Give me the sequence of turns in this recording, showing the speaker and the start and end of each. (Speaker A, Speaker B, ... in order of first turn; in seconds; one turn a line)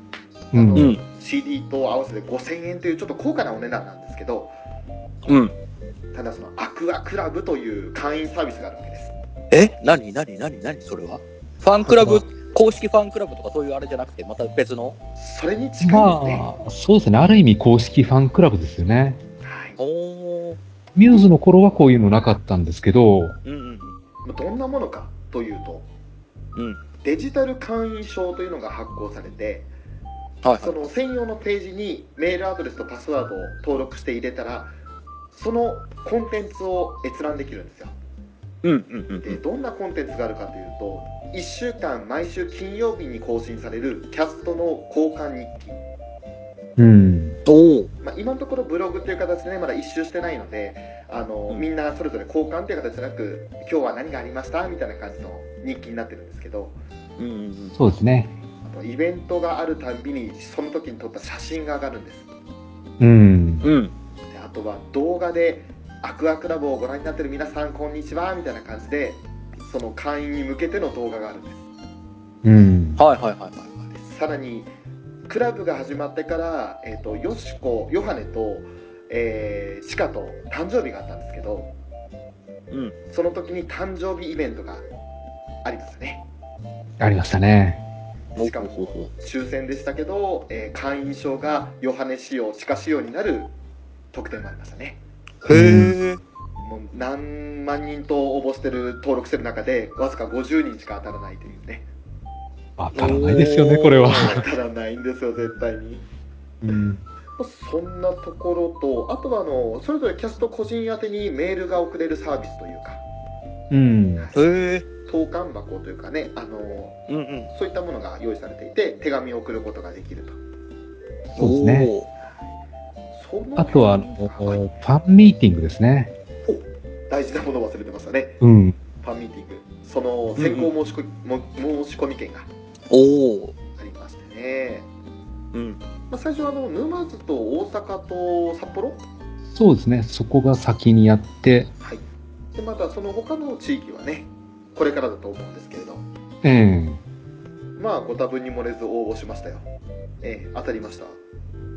Speaker A: 0.5-4.5
Speaker B: 0.5-0.9
Speaker C: 0.7-1.0
Speaker C: 5.3-5.5
Speaker A: 6.1-9.1
Speaker C: 9.5-14.9
Speaker B: 11.9-12.2
Speaker A: 15.2-16.4
Speaker B: 15.8-19.2
Speaker A: 19.4-19.8
Speaker C: 19.8-20.6
Speaker B: 20.9-23.4
Speaker C: 23.4-24.0
Speaker A: 24.2-25.9
Speaker C: 26.6-26.8
Speaker A: 27.0-29.7
Speaker C: 30.4-30.7
Speaker A: 30.6-34.7
Speaker A: 35.3-37.9
Speaker C: 38.6-39.4
Speaker A: 39.2-45.8
Speaker B: 46.8-47.4
Speaker C: 47.5-47.9
Speaker A: 48.0-56.8
Speaker C: 57.2-57.7
Speaker B: 57.8-58.3
Speaker A: 58.6-62.2
Speaker B: 63.0-63.7
Speaker C: 63.6-63.9
Speaker A: 64.3-71.6
Speaker B: 72.4-73.0
Speaker C: 73.0-73.6
Speaker A: 73.9-74.7
Speaker A: 75.3-81.7
Speaker A: 83.1-84.8
Speaker A: 85.6-86.2
Speaker B: 87.0-87.8
Speaker C: 88.3-89.1
Speaker A: 88.3-93.5
Speaker A: 94.1-95.0
Speaker C: 95.4-96.2
Speaker B: 95.5-96.0
Speaker A: 96.6-101.8
Speaker B: 102.8-104.5
Speaker C: 102.9-104.4
Speaker A: 104.1-106.0
Speaker B: 106.6-107.0
Speaker A: 107.4-113.0
Speaker B: 113.7-114.3
Speaker A: 114.2-114.4
Speaker C: 114.3-114.8
Speaker A: 115.0-117.0
Speaker C: 117.1-117.5
Speaker A: 117.5-120.4
Speaker C: 121.3-122.0
Speaker B: 121.4-121.9
Speaker A: 123.1-124.6
Speaker B: 123.6-126.1
Speaker A: 126.5-128.4
Speaker B: 128.4-128.8
Speaker A: 129.0-132.5
Speaker C: 130.4-130.7
Speaker C: 132.9-133.5
Speaker A: 133.8-134.9
Speaker C: 135.5-135.8
Speaker A: 136.1-139.0
Speaker B: 139.5-141.7
Speaker A: 142.5-146.1
Speaker B: 146.4-147.0
Speaker A: 147.8-149.6
Speaker A: 150.2-151.2